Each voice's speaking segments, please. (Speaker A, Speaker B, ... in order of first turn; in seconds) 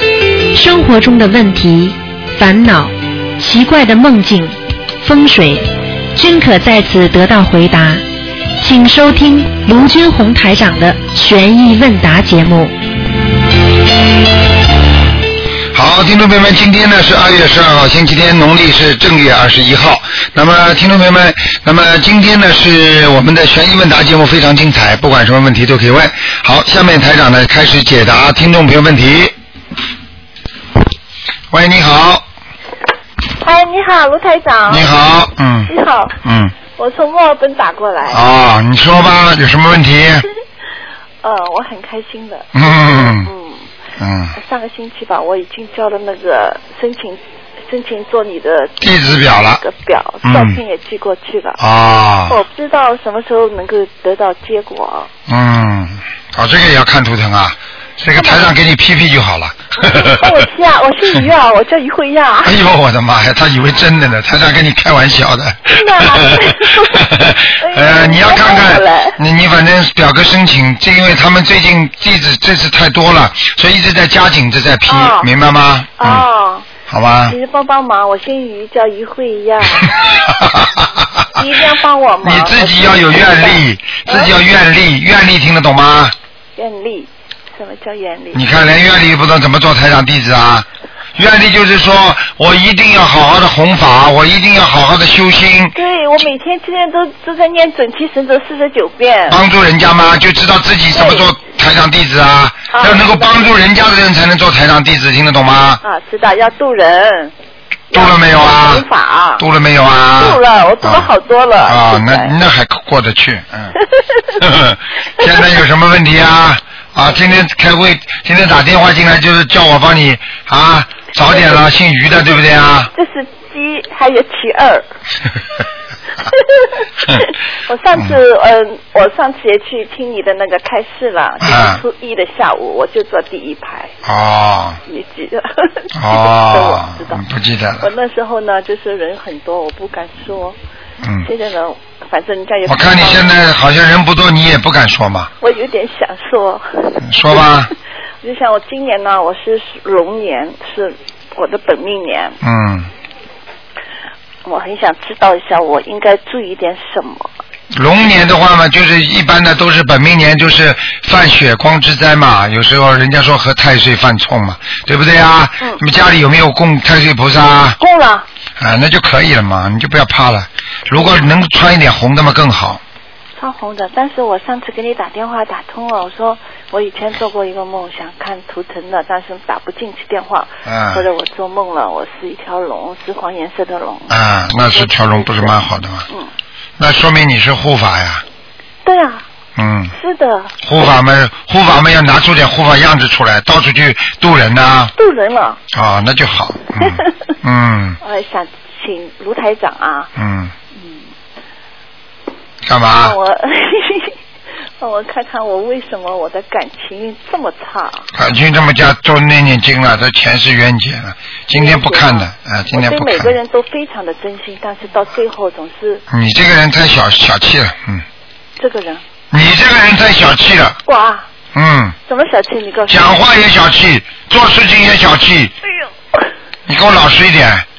Speaker A: 0.5-8.0, 8.6-12.7
Speaker B: 15.7-29.3, 31.5-32.2, 34.7-36.5, 38.0-40.2, 42.5-43.3, 44.0-44.3, 48.8-49.6, 50.2-50.6, 51.6-52.4, 55.3-60.4, 62.4-76.2, 76.9-77.3, 80.3-81.2, 82.2-86.1, 88.3-95.7, 99.3-105.8, 107.9-108.8, 109.4-111.1, 111.6-113.8, 114.4-122.9, 131.4-131.8, 134.0-134.8, 135.9-137.9, 141.0-141.3, 142.7-145.3, 147.0-147.7, 152.4-152.9, 157.8-167.8, 168.6-172.8, 180.7-181.0, 184.1-186.1, 186.8-188.2, 189.6-189.9, 190.6-194.9, 195.7-198.0, 200.2-200.5, 202.6-203.2, 208.1-213.3, 216.1-218.0, 219.3-220.8, 221.5-221.9, 222.9-225.5, 226.7-227.7
Speaker C: 33.4-34.9, 35.6-36.1, 36.7-38.2, 41.2-43.7, 44.4-51.6, 52.3-55.1, 58.1-58.5, 59.8-62.5, 65.7-69.2, 74.8-75.3, 76.0-76.7, 77.3-80.0, 81.3-84.3, 86.5-88.4, 95.7-99.4, 100.9-101.3, 102.7-103.5, 105.8-107.3, 107.9-109.4, 110.2-112.3, 113.8-114.3, 121.3-121.6, 122.9-124.8, 126.3-133.9, 134.9-137.2, 137.8-140.6, 141.2-143.5, 145.4-147.4, 148.2-152.4, 154.4-157.3, 167.8-168.2, 173.4-184.2, 184.7-185.5, 188.8-189.2, 189.9-190.5, 194.9-195.6, 196.8-197.1, 198.0-200.1, 203.0-204.2, 204.8-208.1, 211.5-216.0, 218.6-219.0, 220.9-221.3, 222.1-223.2